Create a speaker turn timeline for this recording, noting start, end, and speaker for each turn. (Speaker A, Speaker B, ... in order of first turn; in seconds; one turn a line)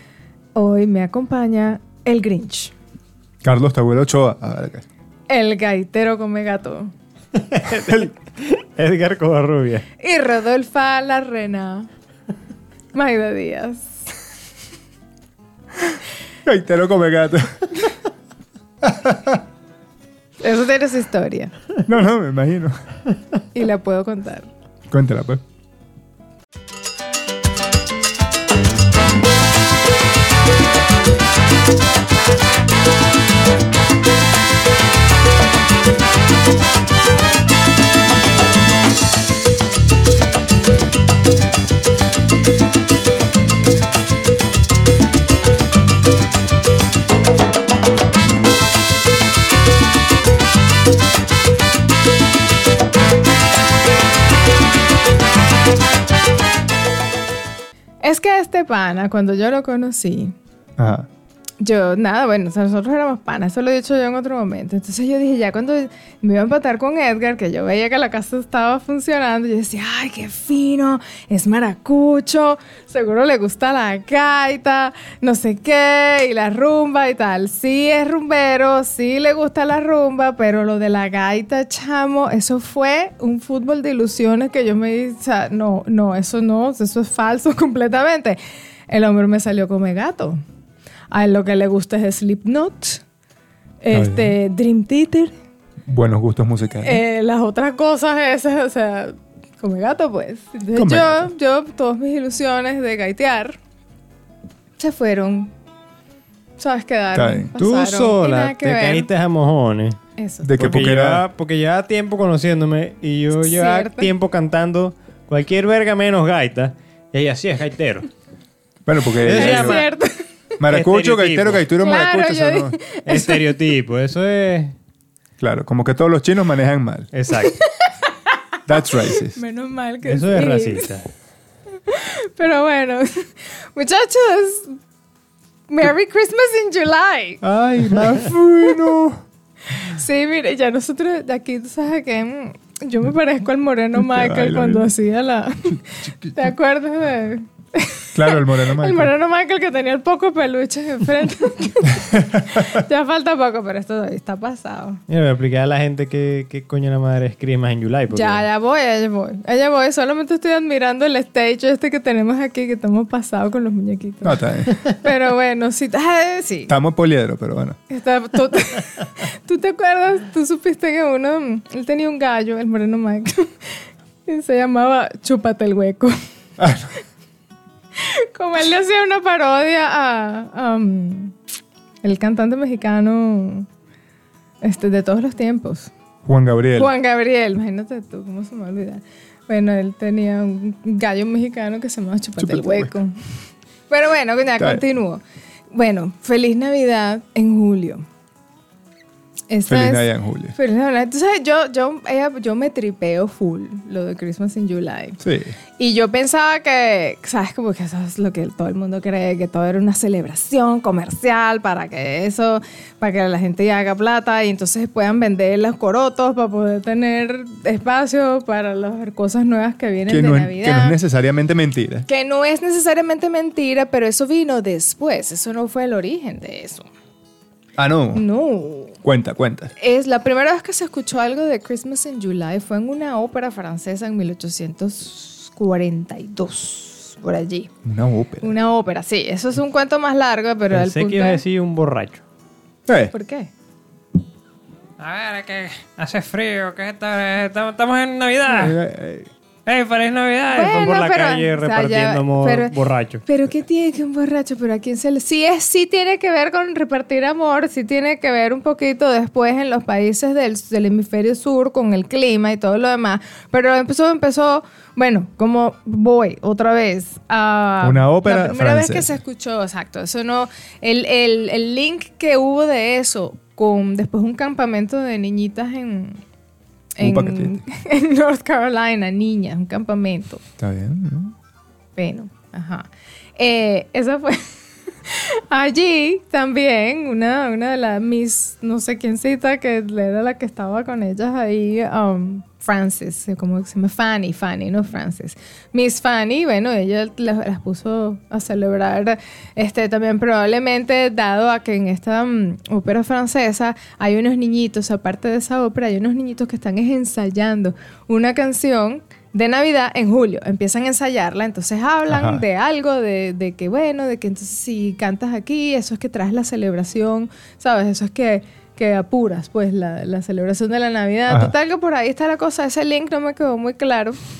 Speaker A: 0.6-2.7
Speaker B: 3.4-4.8
Speaker A: 5.3-6.9
Speaker C: 7.3-9.8
Speaker A: 10.0-11.9
Speaker A: 12.9-14.0
Speaker B: 16.4-17.9
Speaker B: 18.8-19.4
Speaker A: 20.4-21.5
Speaker B: 21.9-22.7
Speaker A: 23.5-24.5
Speaker B: 24.9-25.4
Speaker A: 58.0-60.3
Speaker B: 60.8-61.1
Speaker A: 61.6-90.4
Speaker A: 91.1-93.0
Speaker A: 93.8-95.3
Speaker B: 93.9-94.3
Speaker B: 95.8-97.0
Speaker A: 96.8-103.6
Speaker B: 100.8-101.3
Speaker A: 104.8-105.5
Speaker A: 106.6-109.1
Speaker B: 107.1-107.5
Speaker C: 107.6-110.0
Speaker A: 110.2-110.5
Speaker B: 110.4-111.2
Speaker C: 110.6-118.1
Speaker A: 113.3-114.1
Speaker B: 118.8-119.8
Speaker C: 119.2-119.9
Speaker A: 119.3-120.2
Speaker B: 120.6-122.8
Speaker C: 120.7-121.6
Speaker A: 121.8-123.5
Speaker C: 123.0-124.7
Speaker B: 125.4-127.1
Speaker C: 127.1-127.6
Speaker A: 127.3-128.4
Speaker B: 128.7-129.4
Speaker A: 128.9-130.9
Speaker C: 130.0-131.1
Speaker A: 131.8-134.8
Speaker A: 135.7-137.4
Speaker B: 137.4-139.2
Speaker A: 139.7-155.0
Speaker B: 144.0-144.9
Speaker B: 146.2-146.5
Speaker B: 148.1-149.1
Speaker B: 152.1-152.7
Speaker C: 155.1-158.4
Speaker A: 158.1-166.7
Speaker B: 164.2-164.8
Speaker B: 166.7-167.8
Speaker A: 167.9-176.2
Speaker B: 176.6-176.9
Speaker A: 178.0-181.3
Speaker A: 182.0-183.7
Speaker A: 184.6-185.9
Speaker B: 186.2-186.9
Speaker A: 186.8-193.2
Speaker B: 192.4-192.9
Speaker A: 193.9-198.1
Speaker B: 194.6-194.8
Speaker A: 199.5-205.2
Speaker B: 199.7-200.5
Speaker B: 205.2-205.6
Speaker A: 205.8-220.9
Speaker B: 220.1-222.1
Speaker A: 222.1-226.8
Speaker B: 227.8-228.2
Speaker A: 228.1-229.0
Speaker B: 229.0-229.7
Speaker A: 229.8-237.7
Speaker B: 237.8-238.5
Speaker A: 238.4-241.4
Speaker C: 240.7-242.2
Speaker B: 242.9-243.1
Speaker A: 243.1-243.5
Speaker C: 245.0-248.8
Speaker B: 248.6-249.3
Speaker C: 249.7-253.2
Speaker A: 250.5-252.7
Speaker A: 253.2-276.2
Speaker B: 267.8-269.2
Speaker A: 276.9-280.4
Speaker B: 277.0-277.5
Speaker B: 280.6-281.3
Speaker A: 281.9-284.5
Speaker A: 285.0-324.2
Speaker B: 312.1-312.4
Speaker B: 321.3-321.5